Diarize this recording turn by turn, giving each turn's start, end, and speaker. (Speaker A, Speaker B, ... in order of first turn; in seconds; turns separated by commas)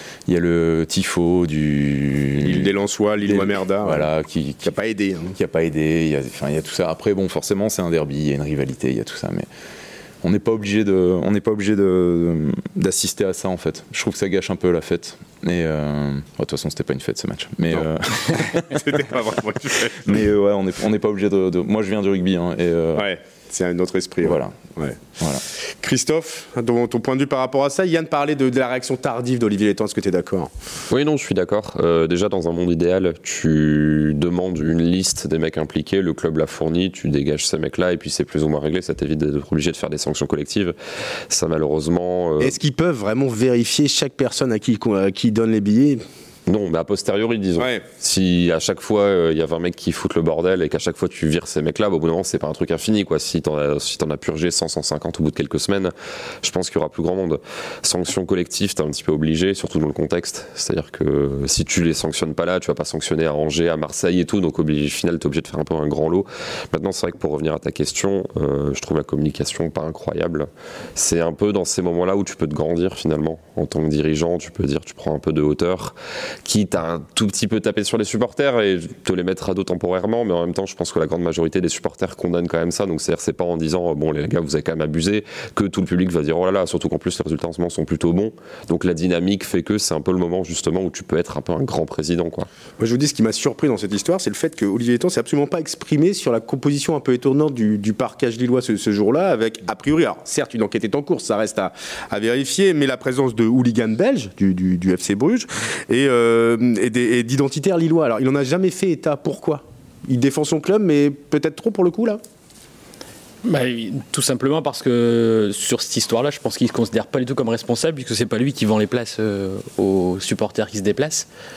Speaker A: 0.3-2.7, Speaker B: 2.4-4.1, Speaker A: 3.2-4.8, Speaker B: 4.6-5.3, Speaker A: 5.3-9.5, Speaker A: 10.2-19.1, Speaker B: 18.4-20.2, Speaker A: 20.0-23.1, Speaker B: 22.9-25.0, Speaker A: 24.2-24.6, Speaker A: 25.2-25.4, Speaker B: 25.8-30.5, Speaker C: 30.9-40.7, Speaker C: 41.3-42.6, Speaker B: 42.4-46.0, Speaker C: 46.5-92.5, Speaker B: 47.6-47.8, Speaker B: 92.8-112.2, Speaker D: 113.4-121.3